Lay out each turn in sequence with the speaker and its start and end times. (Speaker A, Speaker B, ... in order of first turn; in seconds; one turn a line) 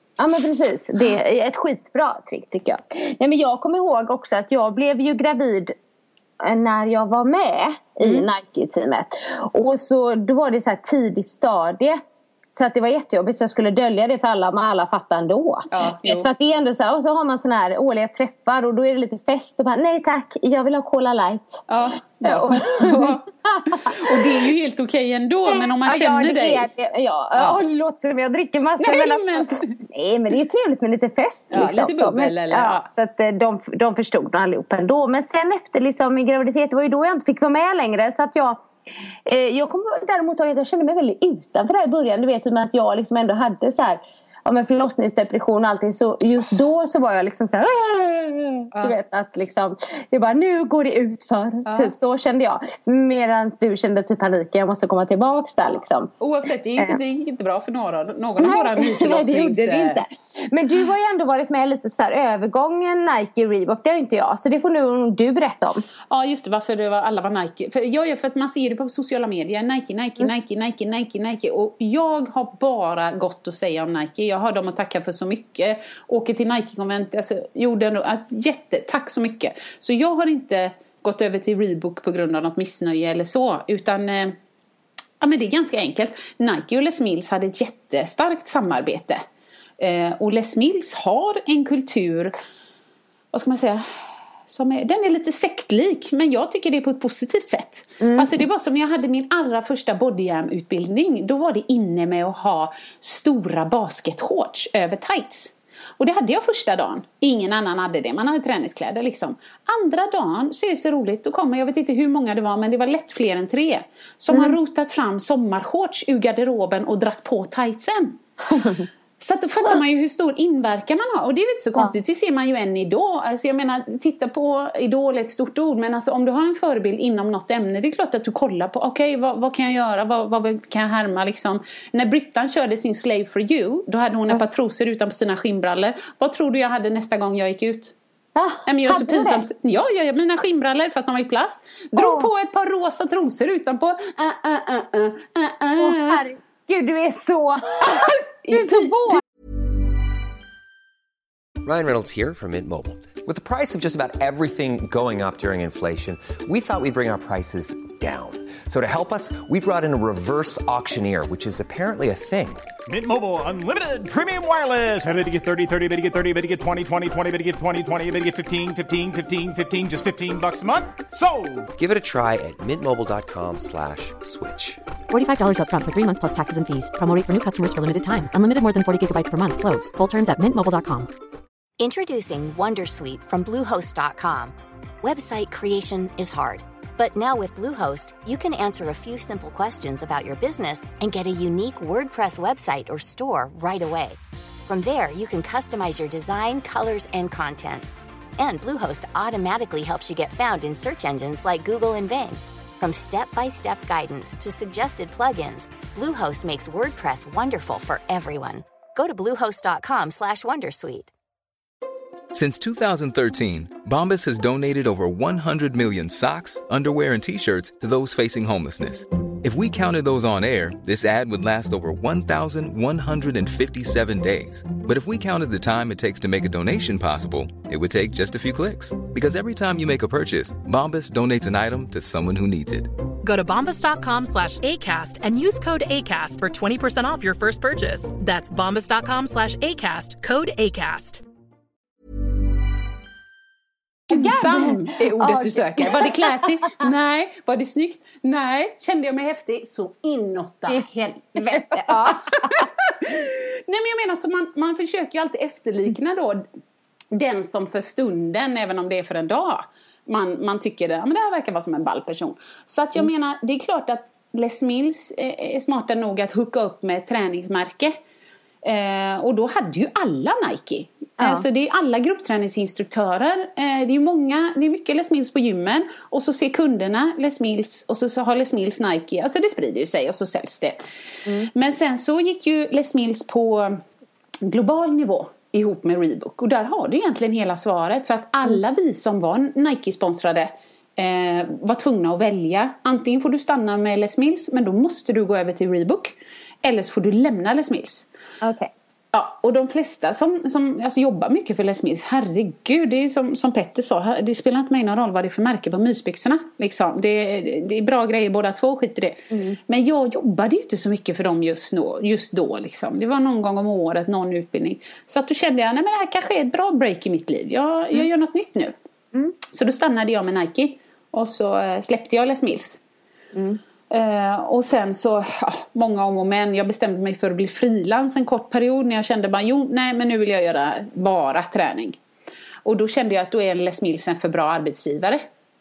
Speaker A: 0.2-5.7
Speaker A: 6.4-12.0
Speaker B: 8.0-8.3
Speaker A: 12.5-21.6
Speaker B: 15.7-16.3
Speaker B: 21.7-26.7
Speaker A: 22.2-24.0
Speaker A: 25.5-38.6
Speaker B: 27.4-27.6
Speaker B: 28.8-29.7
Speaker B: 31.5-32.9
Speaker A: 39.2-56.1
Speaker B: 51.6-51.9
Speaker B: 56.2-60.0
Speaker A: 58.4-65.8
Speaker B: 66.1-84.3
Speaker B: 85.2-89.2
Speaker B: 89.8-92.3
Speaker B: 93.3-93.8
Speaker B: 94.5-118.2
Speaker A: 98.0-98.4
Speaker B: 119.2-137.9
Speaker A: 138.3-139.4
Speaker B: 138.7-146.2
Speaker A: 141.9-142.3
Speaker A: 145.8-149.2
Speaker B: 147.8-149.2
Speaker C: 151.6-162.7
Speaker D: 162.9-171.7
Speaker C: 171.8-174.8
Speaker E: 175.1-181.1
Speaker F: 181.8-197.9
Speaker F: 198.4-211.1
Speaker G: 212.3-232.9
Speaker H: 233.2-241.2
Speaker B: 244.1-256.4
Speaker A: 244.1-246.8
Speaker A: 251.6-251.8
Speaker B: 257.1-268.0
Speaker B: 268.6-280.8
Speaker A: 271.2-271.4
Speaker B: 281.4-283.8
Speaker B: 284.4-298.1
Speaker A: 298.4-298.7
Speaker B: 299.1-318.7
Speaker A: 309.3-309.6
Speaker B: 319.4-322.8
Speaker A: 323.3-323.6
Speaker B: 323.9-332.0
Speaker B: 332.6-335.3